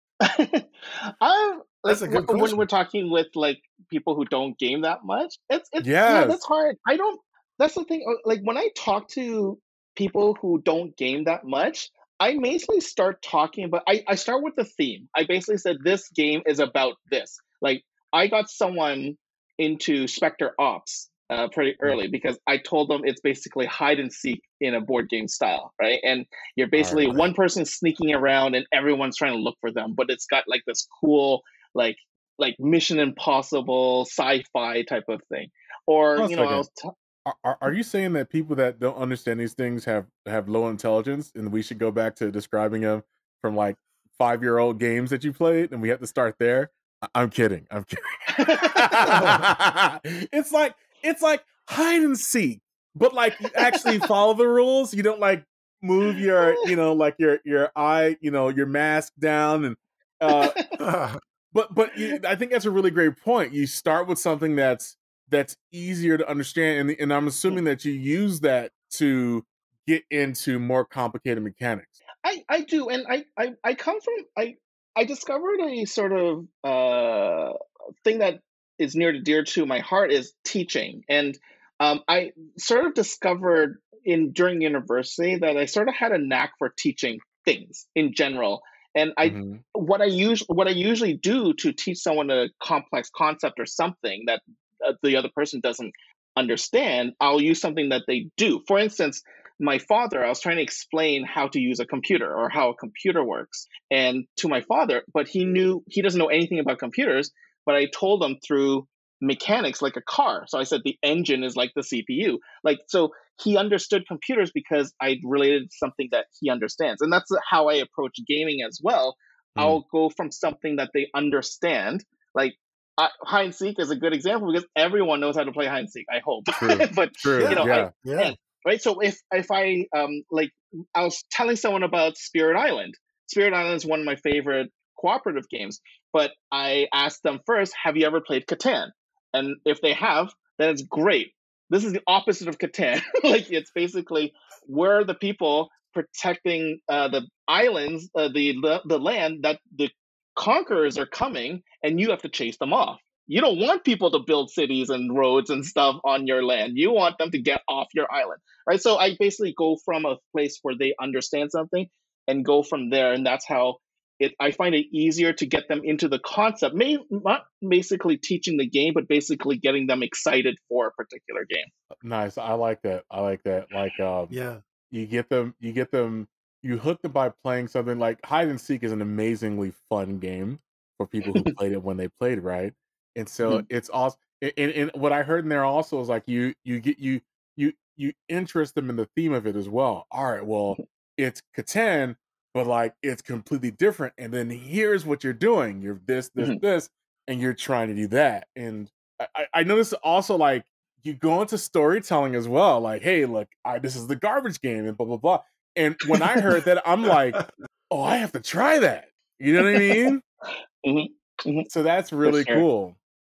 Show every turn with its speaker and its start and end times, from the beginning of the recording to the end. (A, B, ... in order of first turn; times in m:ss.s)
0:00.2-0:36.9 A
0:01.9-0:02.6 B
0:05.8-0:06.4 C
0:26.7-0:27.3 C
0:36.2-0:36.7 C
0:37.2-1:00.6 C
0:48.3-0:49.2 A
0:49.1-0:49.5 B
0:53.5-0:54.0 A
0:56.4-0:56.7 A
1:00.3-1:00.7 A
1:00.8-1:01.2 B
1:01.5-1:12.0 C
1:12.2-2:51.7 A
1:29.2-1:29.6 C
1:59.6-1:59.8 C
2:06.6-2:07.9 C
2:07.4-2:08.4 B
2:52.0-2:54.4 C
2:54.3-2:54.6 B
2:54.9-3:30.2 C
3:30.8-3:31.7 A
3:31.7-3:33.0 C
3:32.2-3:32.6 A